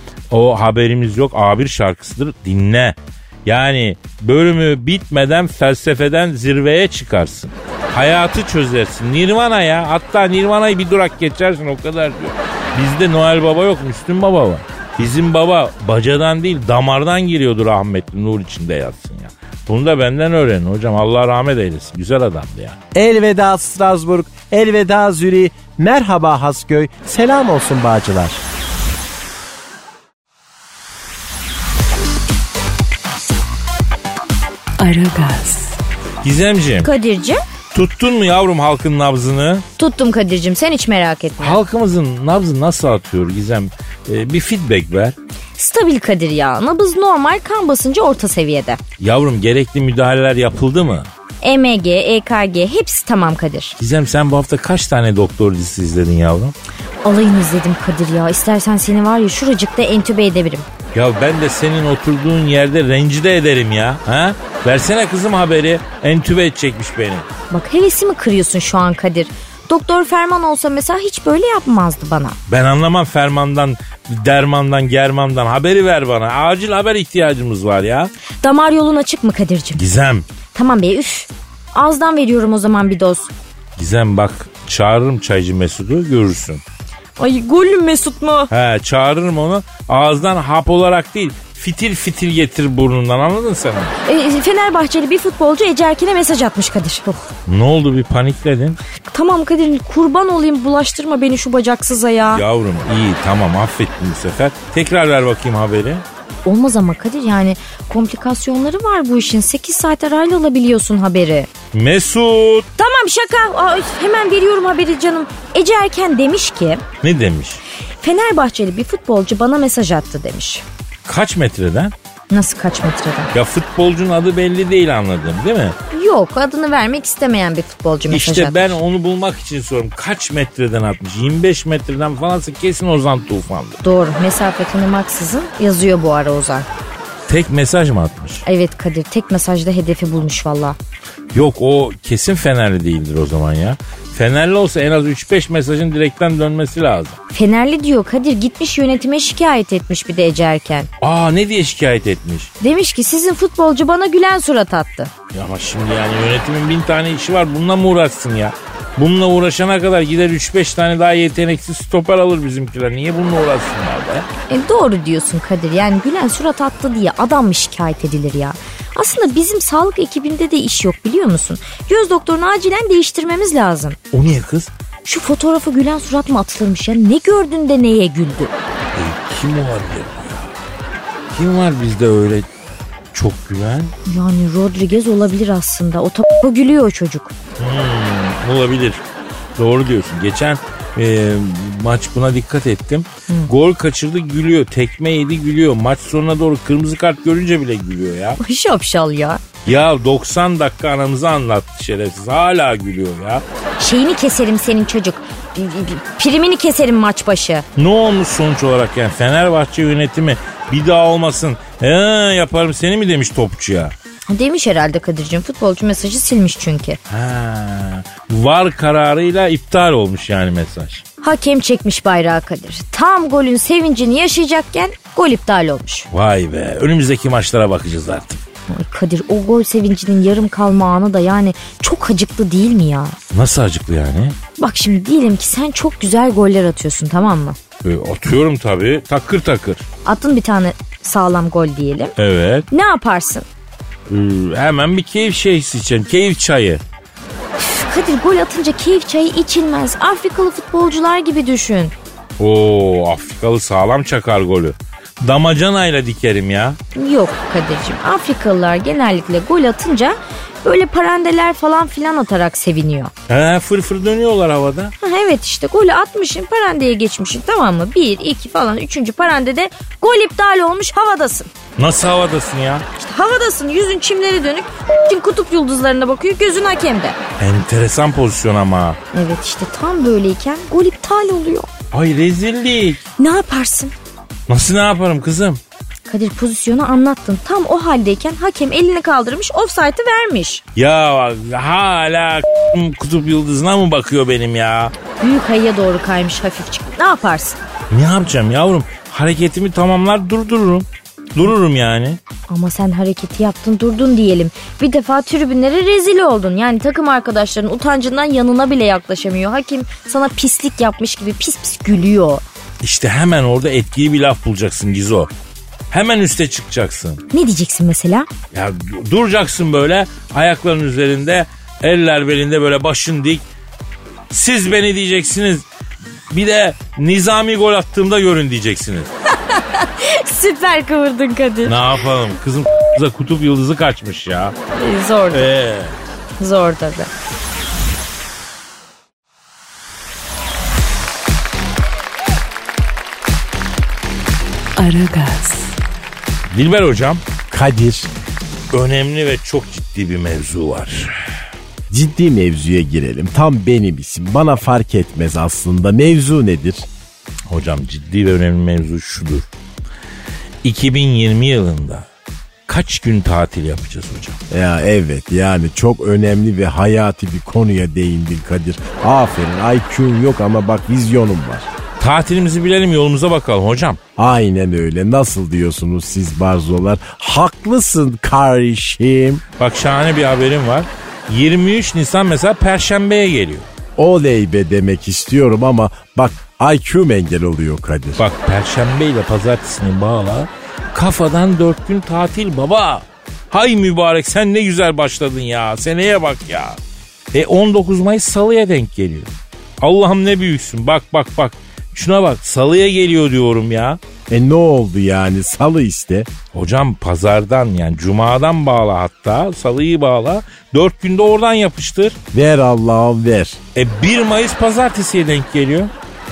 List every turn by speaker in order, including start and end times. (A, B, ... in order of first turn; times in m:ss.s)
0:00.3-0:22.8 A
0:22.9-0:28.4 B
0:34.8-0:35.8 C
0:36.2-0:36.9 A
0:36.8-0:37.4 D
0:37.7-0:39.6 A
0:39.8-0:41.6 D
0:41.4-0:45.2 A
0:45.6-0:48.8 D
0:49.0-0:51.1 A
0:51.4-0:53.8 D
0:53.8-0:56.5 A
0:57.0-1:00.7 D
1:00.9-1:07.2 A
1:07.5-1:12.4 D
1:12.5-1:18.1 A
1:18.4-1:19.8 D
1:19.8-1:20.2 A
1:20.5-1:23.3 D
1:23.8-1:26.6 A
1:27.2-1:28.5 D
1:28.5-1:34.0 A
1:34.0-1:37.3 D
1:37.5-1:38.8 A
1:39.1-1:42.4 D
1:42.3-1:46.0 A
1:46.4-1:51.5 D
1:51.7-1:52.7 A
1:52.8-1:56.8 D
1:57.0-1:57.6 A
1:58.0-2:00.6 D
2:01.0-2:01.9 A
2:02.3-2:03.3 D
2:03.3-2:05.8 A
2:05.9-2:08.8 D
2:08.1-2:13.8 A
2:13.8-2:16.7 D
2:17.3-2:18.4 A
2:18.4-2:20.8 D
2:21.3-2:27.2 A
2:27.3-2:30.9 D
2:31.0-2:32.5 A
2:32.6-2:35.1 D
2:35.3-2:44.3 A
2:44.5-2:54.0 D
2:54.1-2:54.7 A
2:55.0-2:58.5 D
2:58.9-3:00.5 A
3:01.3-3:02.5 A
3:03.1-3:03.9 A
3:04.0-3:07.3 D
3:07.6-3:09.0 A
3:09.6-3:18.4 A
3:18.4-3:19.4 D
3:19.6-3:23.4 A
3:23.8-3:27.6 D
3:27.8-3:33.9 A
3:34.3-3:37.0 D
3:37.1-3:41.0 A
3:41.2-3:46.1 D
3:46.1-3:48.4 A
3:48.7-3:53.2 D
3:53.3-3:54.4 A
3:54.6-3:57.6 D
3:57.8-3:59.9 A
4:00.0-4:02.2 D
4:02.2-4:02.7 A
4:02.7-4:03.5 D
4:04.1-4:06.8 A
4:07.6-4:11.9 D
4:12.4-4:16.8 A
4:17.0-4:23.1 D
4:23.3-4:24.9 A
4:25.0-4:31.5 D
4:31.8-4:32.8 A
4:33.0-4:37.2 D
4:37.4-4:39.0 A
4:39.1-4:41.7 D
4:41.9-4:43.0 A
4:43.2-4:43.9 D
4:44.5-4:45.6 A
4:46.1-4:50.6 D
4:50.8-4:54.9 A
4:55.2-4:57.6 D
4:57.9-5:02.2 A
5:02.5-5:12.4 D
5:12.8-5:15.3 A
5:15.9-5:17.2 A
5:17.3-5:18.3 D
5:18.5-5:23.4 A
5:24.3-5:25.7 A
5:26.3-5:29.1 A
5:29.5-5:31.9 D
5:31.7-5:34.6 A
5:34.7-5:35.5 D
5:35.3-5:36.0 A
5:36.4-5:37.1 D
5:44.8-5:45.8 C
5:46.5-5:47.2 A
5:47.5-5:48.1 B
5:48.7-5:51.1 A
5:51.9-5:56.9 B
5:57.5-5:59.5 A
6:00.6-6:02.0 A
6:02.7-6:04.4 A
6:04.5-6:11.7 B
6:12.0-6:14.0 A
6:14.2-6:19.4 B
6:19.6-6:23.7 A
6:24.0-6:28.2 B
6:28.2-6:36.8 A
6:37.3-6:44.0 A
6:44.3-6:46.3 B
6:46.5-6:52.2 A
6:52.3-6:53.6 B
6:53.8-6:55.9 A